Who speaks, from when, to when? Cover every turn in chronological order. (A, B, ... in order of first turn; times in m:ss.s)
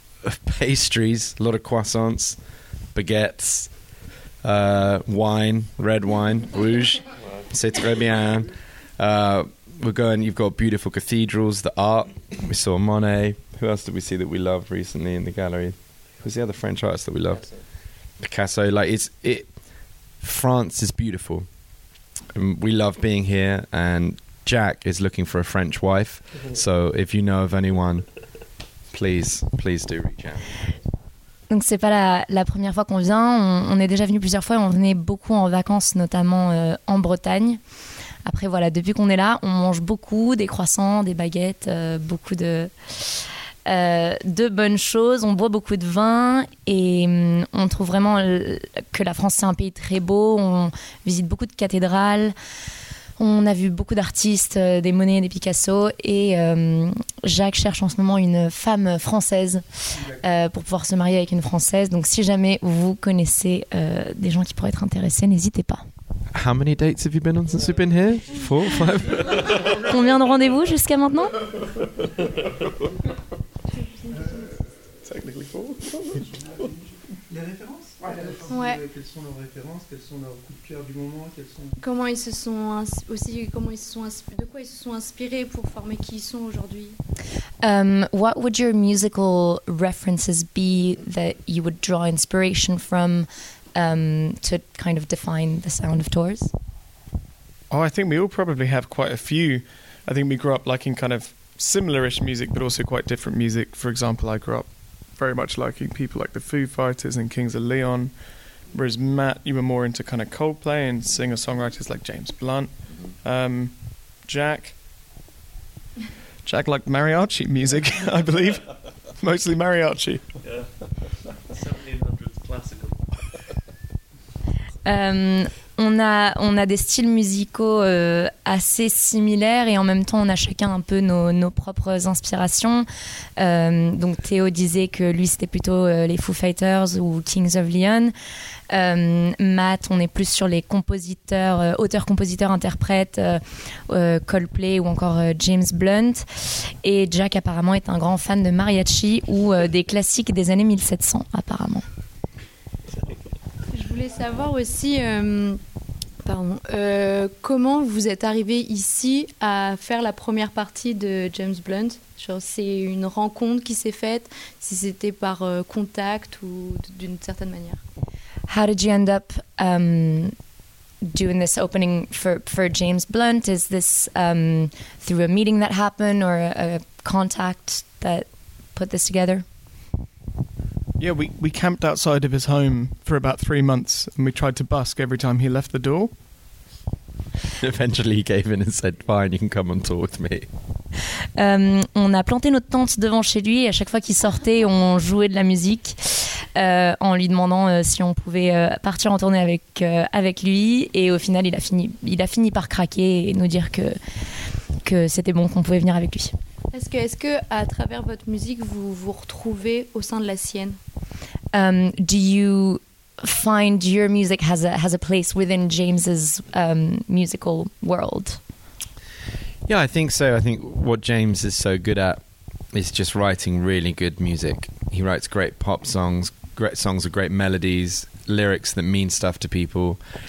0:00.2-0:02.4 A
0:02.9-0:03.9 A
0:04.4-0:19.6 A
0:07.2-0:07.5 B
0:20.1-0:21.5 A
0:22.3-0:28.2 A
0:28.9-0:30.5 A
0:31.5-0:37.6 C
0:38.2-0:52.3 C
0:53.2-1:05.8 C
0:59.9-1:00.2 D
1:06.3-1:09.6 A
1:09.7-1:11.3 C
1:13.7-1:14.6 E
1:14.1-1:14.7 D
1:15.0-1:16.7 F
1:16.3-1:21.8 D
1:18.1-1:18.4 F
1:18.5-1:18.8 E
1:21.8-1:27.0 E
1:27.6-1:36.5 C
1:37.7-1:54.8 F
1:56.4-2:00.4 F
2:00.4-2:03.3 B
2:04.8-2:18.1 C
2:18.7-2:31.8 C
2:33.7-2:35.6 E
2:36.2-2:47.8 E
2:48.5-2:50.3 C
2:51.0-2:59.4 C
3:01.0-3:06.1 F
3:07.6-3:10.5 A
3:11.4-3:24.0 C
3:24.8-3:26.4 C
3:26.7-3:30.8 E
3:31.5-3:38.4 C
3:39.7-3:50.0 A